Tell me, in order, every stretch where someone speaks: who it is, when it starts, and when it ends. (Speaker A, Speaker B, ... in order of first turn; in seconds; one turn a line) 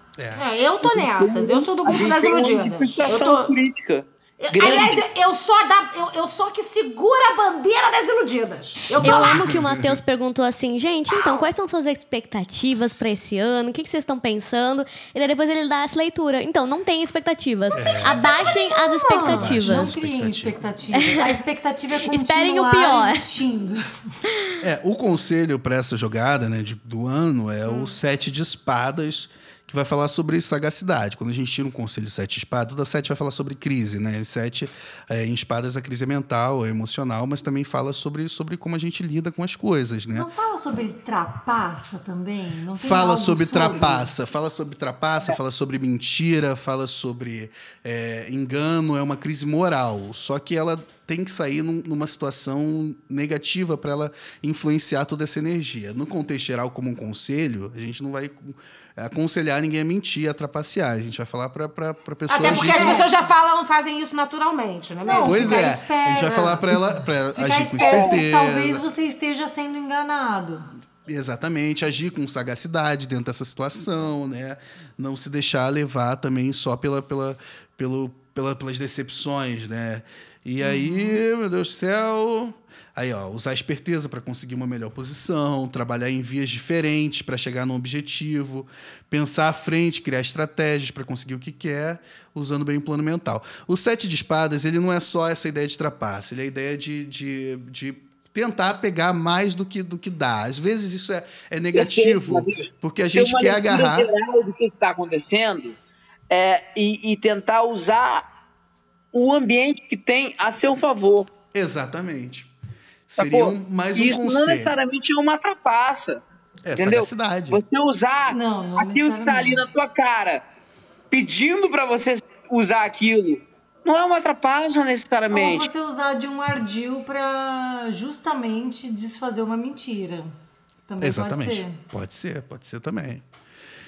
Speaker A: 0.2-0.5
Speaker B: 0.3-3.6
Speaker C: 0.8-5.0
Speaker B: 4.4-9.4
Speaker A: 9.0-10.0
Speaker D: 9.0-19.9
Speaker A: 17.7-18.6
Speaker E: 18.9-24.2
Speaker A: 19.2-20.7
Speaker D: 20.9-21.2
Speaker D: 22.1-23.3
Speaker A: 24.6-40.3
Speaker D: 27.7-28.0
Speaker E: 40.1-44.1
Speaker A: 42.7-63.1
Speaker B: 62.3-65.6
Speaker E: 62.4-63.1
Speaker E: 65.0-70.7
Speaker A: 65.2-68.8
Speaker C: 67.8-68.2
Speaker A: 71.0-104.1
Speaker E: 80.6-81.2
Speaker C: 101.7-105.8
Speaker C: 106.3-108.2
Speaker C: 109.1-111.3
Speaker A: 111.5-112.5
Speaker A: 113.1-114.7
Speaker C: 113.2-116.2
Speaker A: 116.7-117.6
Speaker C: 116.8-120.4
Speaker E: 118.3-119.7
Speaker C: 121.1-125.7
Speaker E: 125.3-130.3
Speaker E: 130.9-131.8
Speaker A: 131.0-133.2